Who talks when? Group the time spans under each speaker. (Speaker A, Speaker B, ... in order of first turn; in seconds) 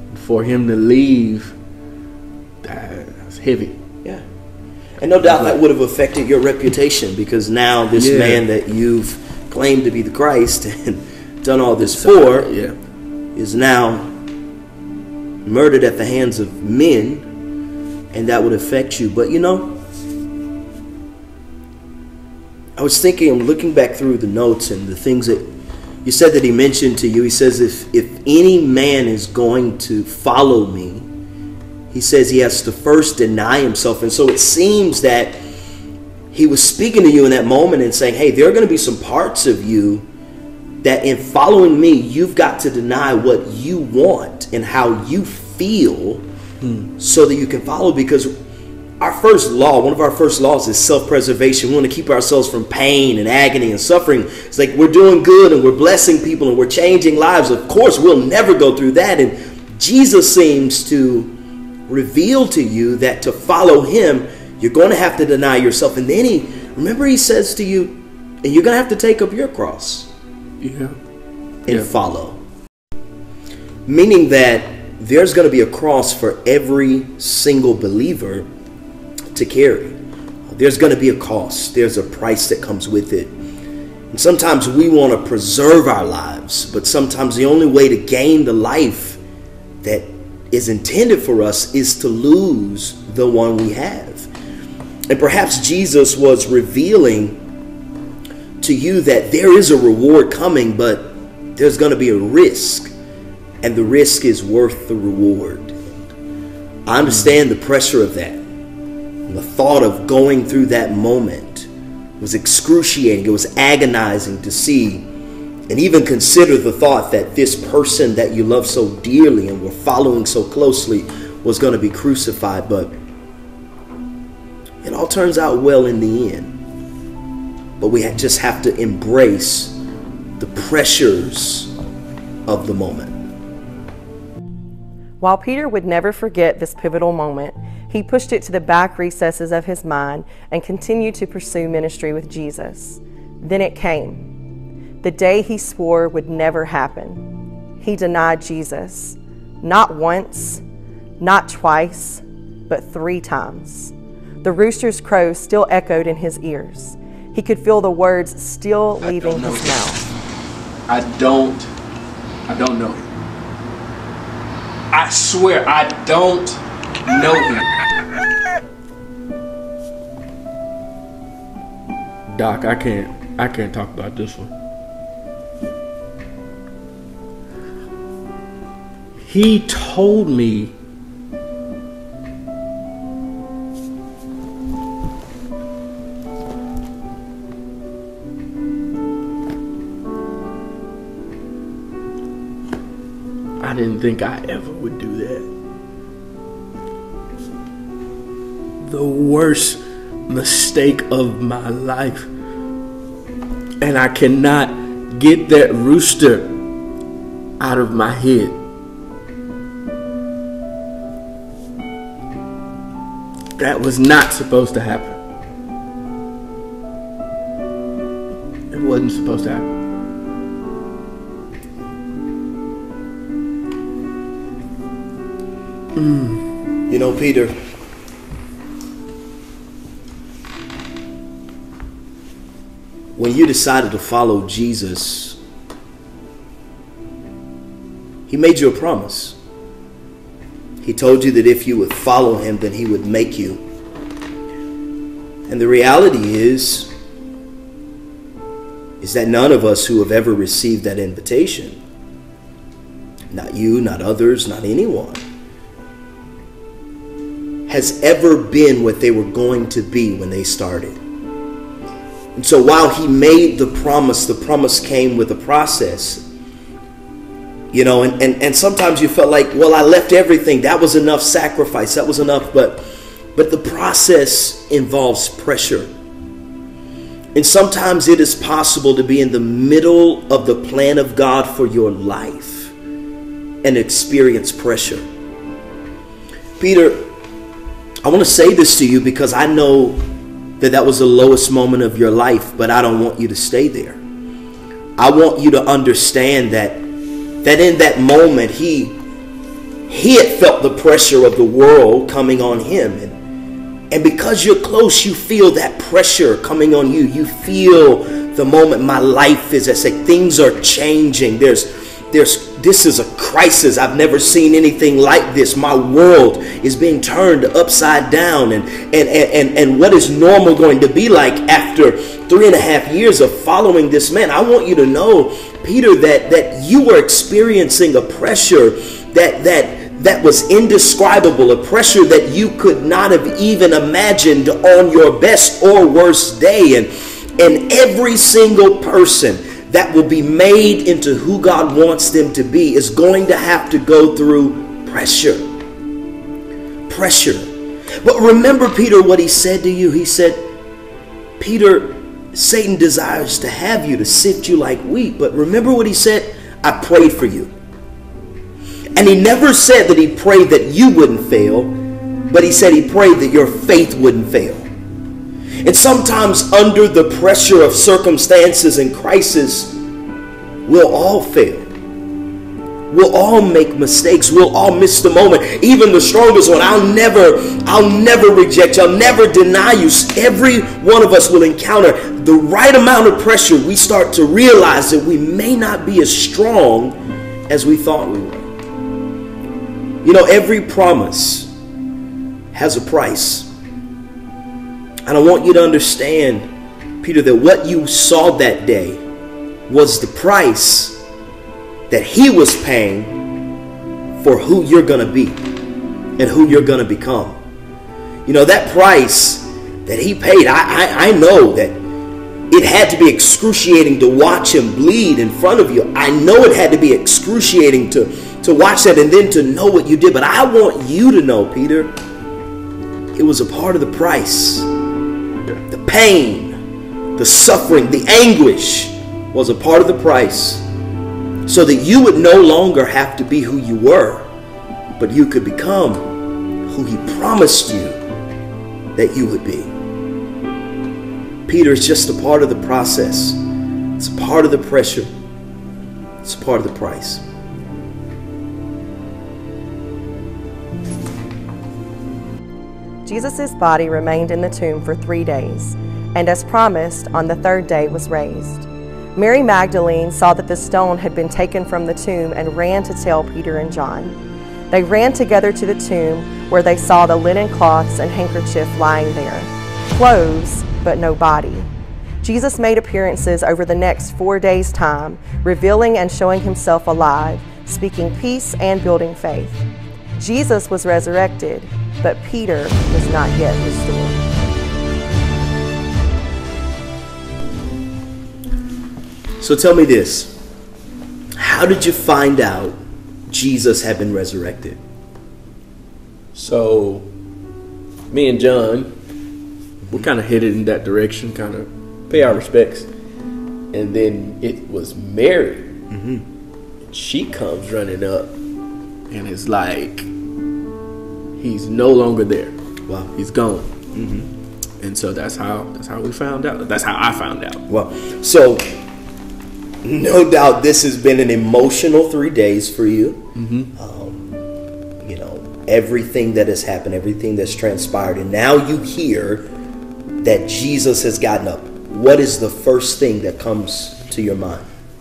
Speaker A: 0.1-1.5, 2.6-3.8, 5.2-5.6, 7.9-8.4, 11.8-12.8, 46.6-46.9, 70.6-71.0, 107.0-107.3, 159.0-160.0, 160.9-161.7, 162.5-163.1, 164.9-167.7, 172.3-174.5, 179.2-180.7, 193.6-195.5, 198.8-202.3, 203.8-206.6, 207.6-208.6, 213.6-215.2, 218.7-219.7, 225.9-226.4, 496.3-497.1, 498.1-498.9, 499.9-502.9, 503.7-505.8, 506.9-508.3, 509.1-510.1, 511.4-512.5, 513.1-513.7, 514.8-517.6, 523.3-523.7
Speaker B: 5.0-12.5, 13.3-14.1, 15.4-17.3, 18.1-19.8, 22.8-25.5, 26.0-31.1, 31.9-35.4, 36.3-40.1, 40.8-46.2, 47.0-48.3, 49.0-61.3, 61.9-70.1, 71.7-72.4, 73.8-78.5, 79.3-83.3, 84.1-89.2, 89.8-94.3, 95.1-97.4, 98.6-102.9, 103.6-105.9, 106.8-108.4, 109.3-115.1, 115.7-122.9, 124.8-126.5, 127.8-129.8, 130.4-131.7, 132.4-133.2, 226.9-227.6, 233.2-235.4, 238.3-239.4, 240.8-243.6, 245.5-246.9, 249.0-251.8, 253.3-255.2, 257.7-261.0, 262.4-266.2, 267.7-275.9, 277.3-282.7, 283.6-285.0, 286.6-287.0, 288.0-290.0, 290.6-294.0, 295.0-296.9, 297.4-299.0, 299.9-303.1, 303.9-345.5, 346.9-347.5, 348.0-350.5, 351.4-357.5, 358.9-361.8, 362.3-364.7, 365.6-369.8, 370.6-371.7, 372.9-387.0, 387.5-388.5, 390.0-391.5, 392.5-393.5, 395.0-396.5, 397.0-399.0, 399.7-401.0, 401.9-403.2, 404.2-405.4, 406.2-407.4, 408.2-411.8, 412.5-421.9, 423.1-424.7, 425.7-426.6, 427.1-430.7, 431.4-434.3, 435.0-436.1, 436.7-438.0, 438.9-439.7, 441.4-443.4, 444.0-445.1, 446.2-447.2, 489.4-490.4, 491.4-494.8, 505.9-506.2, 513.9-514.3, 517.7-518.7, 519.8-524.4, 525.0-529.5, 530.2-534.7
Speaker C: 135.2-144.2, 145.0-147.2, 147.8-150.6, 151.2-160.0, 453.1-464.2, 464.7-471.7, 472.2-479.6, 480.1-484.2